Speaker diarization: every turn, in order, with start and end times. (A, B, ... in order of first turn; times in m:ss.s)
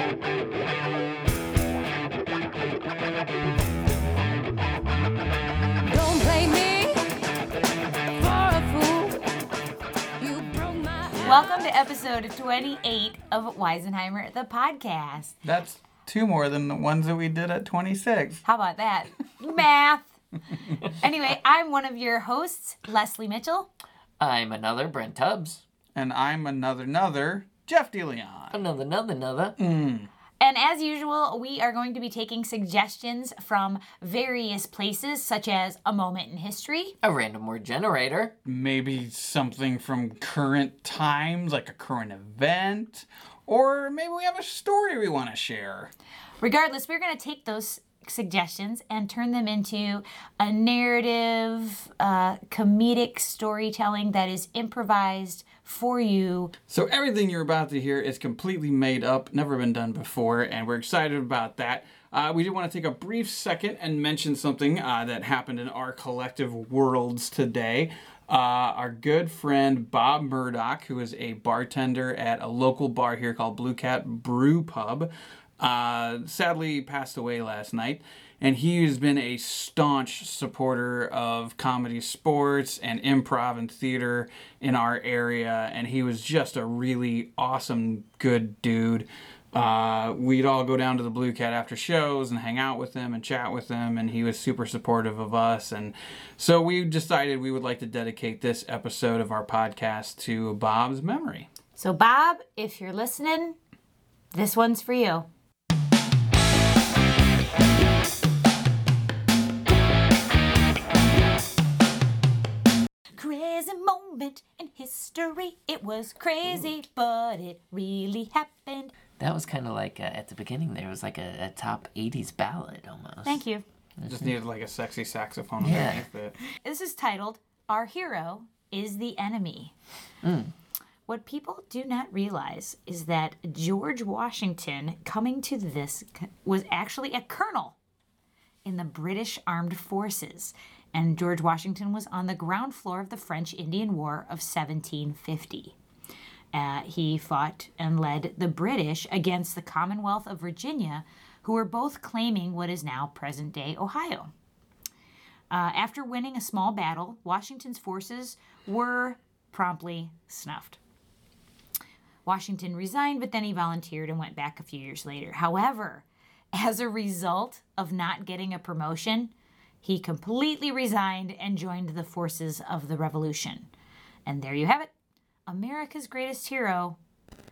0:05.8-0:07.0 A
0:08.1-0:09.2 A
0:10.2-0:11.6 A
0:11.1-0:11.4 B
0:11.2-0:15.3 C
0:15.4-0:18.4 D
0:18.4-0:20.1 C
0:20.9-0:23.7 C
0:24.2-0:25.6 B
0:25.9-0:28.6 D
0:28.5-0:29.6 B
0:29.6-0:30.1 D
0:30.4-0:37.0 C
0:37.0-0:38.3 B
0:38.4-0:45.9 D
0:46.4-0:56.5 C
0:56.7-1:41.5 D
1:41.8-1:43.6 C
1:44.3-1:45.3 C
1:53.1-1:58.9 C
1:59.2-2:03.4 B
2:03.2-2:03.6 C
2:04.0-2:04.3 B
2:04.0-2:06.4 D
2:05.6-2:06.0 B
2:06.5-2:09.7 C
2:10.2-2:10.5 B
2:11.1-2:17.8 C
2:18.6-2:25.8 C
2:26.5-2:34.3 C
2:35.5-2:40.8 C
2:42.2-2:53.7 C
2:54.2-2:54.9 C
2:55.5-2:57.0 C